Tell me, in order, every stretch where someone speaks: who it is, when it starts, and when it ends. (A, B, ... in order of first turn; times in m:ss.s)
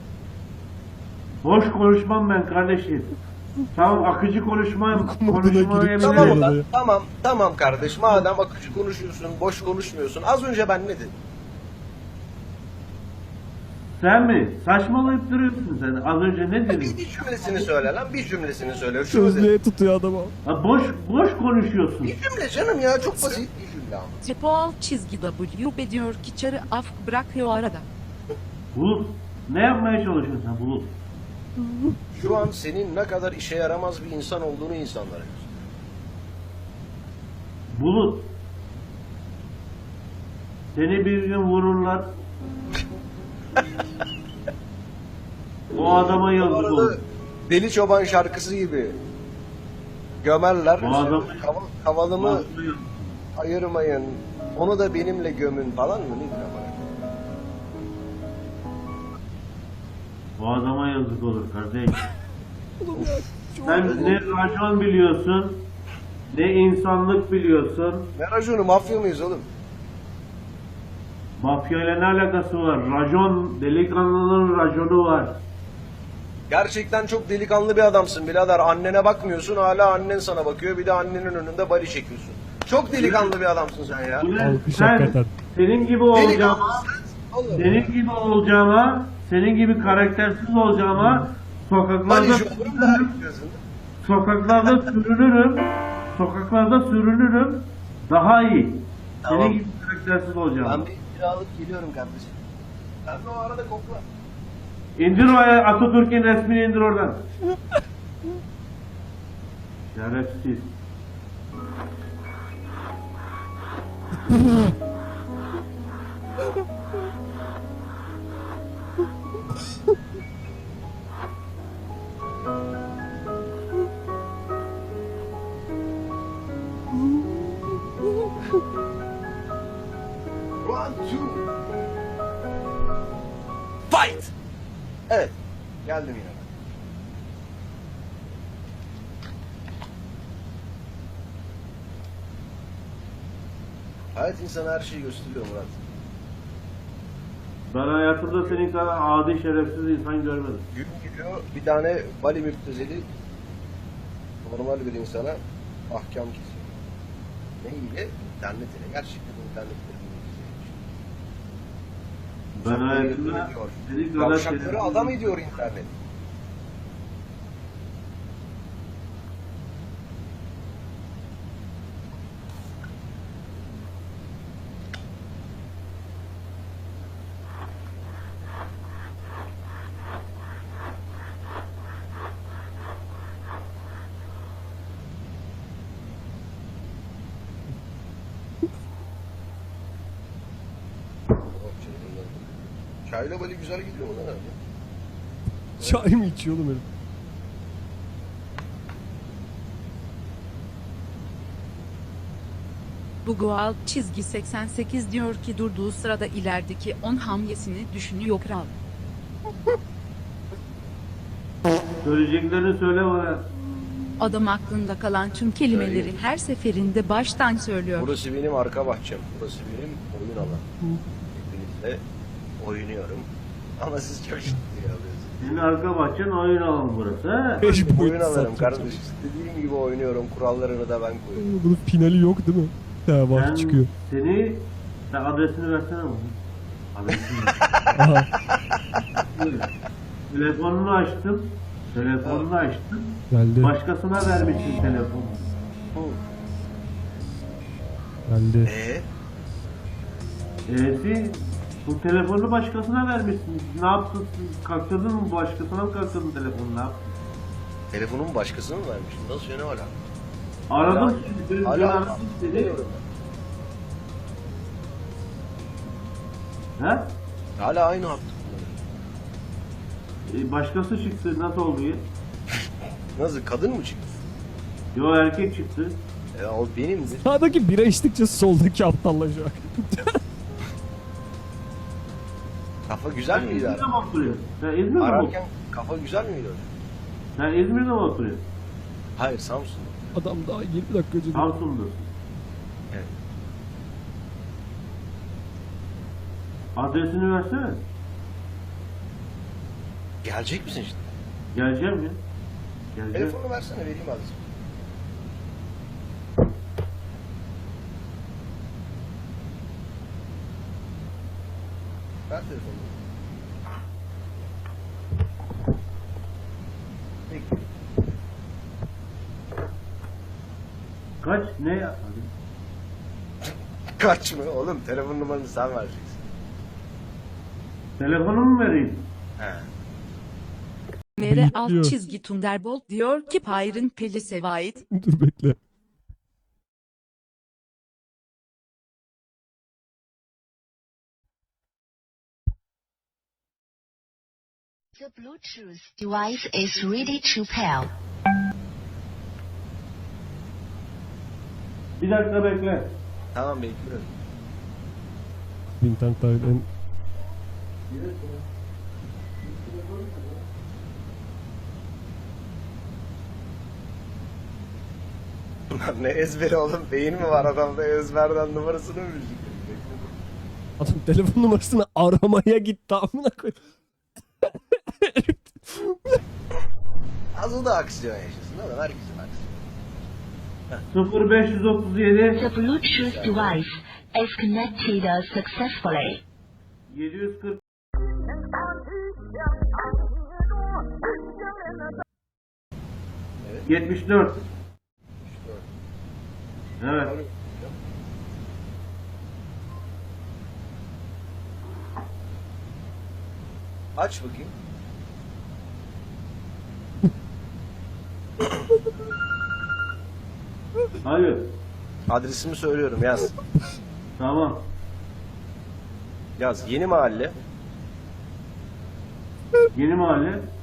0:01.4-0:03.1 A
0:03.7-0:06.4 A
0:04.9-0:06.7 B
0:06.0-0:11.1 C
0:14.0-0:17.0 A
0:16.7-0:19.5 C
0:19.1-0:20.3 B
0:20.4-0:22.2 A
0:22.0-0:24.2 C
0:24.2-0:27.8 D
0:28.7-0:30.9 A
0:32.1-0:35.6 C
0:37.7-0:38.3 A
0:40.7-0:42.1 A
0:45.7-0:47.0 A
0:45.7-0:49.0 C
0:50.2-0:52.4 C
0:50.8-0:51.5 A
0:52.2-0:53.2 A
0:53.3-0:57.0 C
1:00.4-1:02.1 A
1:02.8-1:04.2 B
1:03.6-1:05.7 A
1:03.8-1:04.1 C
1:06.3-1:08.1 A
1:08.2-1:09.5 C
1:11.4-1:15.4 A
1:16.5-1:24.3 C
1:22.9-1:23.3 A
1:24.2-1:26.8 A
1:24.4-1:25.3 B
1:26.1-1:27.9 C
1:27.5-1:33.2 A
1:31.0-1:31.2 B
1:32.1-1:33.6 C
1:34.0-1:40.9 A
1:34.5-1:34.8 C
1:39.2-1:39.6 C
1:40.6-1:42.4 C
1:43.0-1:44.0 C
1:45.0-1:47.3 A
1:49.9-1:50.7 A
2:10.6-2:11.5 C
2:13.9-2:14.3 C
2:15.1-2:16.6 C
2:24.1-2:25.8 C
2:27.7-2:30.7 A
2:28.4-2:28.9 C
2:30.7-2:33.0 C
2:34.4-2:36.7 C
2:37.6-2:40.8 C
2:42.6-2:45.4 A
2:42.6-2:46.0 C
3:11.3-3:14.6 C
3:15.8-3:16.8 B
3:15.8-3:16.2 C
3:23.2-3:28.7 D
3:32.0-3:33.5 A
3:34.2-3:38.1 D
3:35.7-3:36.1 C
3:38.0-3:40.7 C
3:41.3-3:42.0 C
3:42.6-3:45.7 C
3:45.4-3:47.6 A
3:47.6-3:49.0 B
3:47.6-3:51.5 C
3:51.4-3:53.9 B
3:53.3-3:56.4 A
3:56.9-3:57.7 A
3:57.9-3:58.3 B
3:59.1-3:59.7 A
4:00.3-4:05.5 A
4:02.2-4:02.6 C
4:03.3-4:03.8 B
4:08.3-4:08.7 B
4:08.6-4:09.0 C
4:10.7-4:17.1 A
4:17.9-4:19.9 C
4:20.7-4:22.8 A
4:20.8-4:23.0 C
4:26.8-4:27.1 A
4:27.6-4:28.8 C
4:30.3-4:32.1 A
4:33.1-4:34.0 C
4:34.9-4:36.0 A
4:36.3-4:37.2 C
4:37.2-4:40.2 B
4:42.8-4:44.0 C
4:43.3-4:45.4 A
4:45.0-4:46.7 C
4:47.4-4:48.4 A
4:49.2-4:50.2 C
4:50.1-4:51.6 B
4:51.3-4:52.1 A
4:56.7-4:57.8 A
5:00.2-5:01.1 C
5:01.5-5:02.2 A
5:02.9-5:03.4 A
5:03.1-5:04.4 C
5:12.3-5:13.0 C
5:17.3-5:17.6 C
5:21.2-5:22.3 A
5:23.5-5:26.2 C
5:28.0-5:29.1 A
5:29.4-5:29.7 C
5:31.2-5:34.8 D
5:31.2-5:31.9 B
5:34.9-5:35.6 B
5:44.9-5:47.9 E
5:52.0-5:52.9 A
5:53.3-5:54.1 C
5:55.8-5:56.7 B
6:05.7-6:10.1 C
6:10.8-6:13.6 B
6:14.4-6:16.2 B
6:17.3-6:19.7 C
6:20.9-6:22.4 A
6:22.3-6:26.2 E
6:22.9-6:23.6 C
6:26.9-6:27.6 A
6:33.4-6:33.7 C
6:33.6-6:34.4 A
6:35.2-6:35.6 C
6:36.8-6:37.2 A
6:37.0-6:37.7 C
6:44.0-6:44.5 C
6:51.0-6:51.5 A
6:52.1-6:53.3 C
6:54.2-6:54.6 A
6:56.4-6:57.3 C
6:59.7-7:00.5 A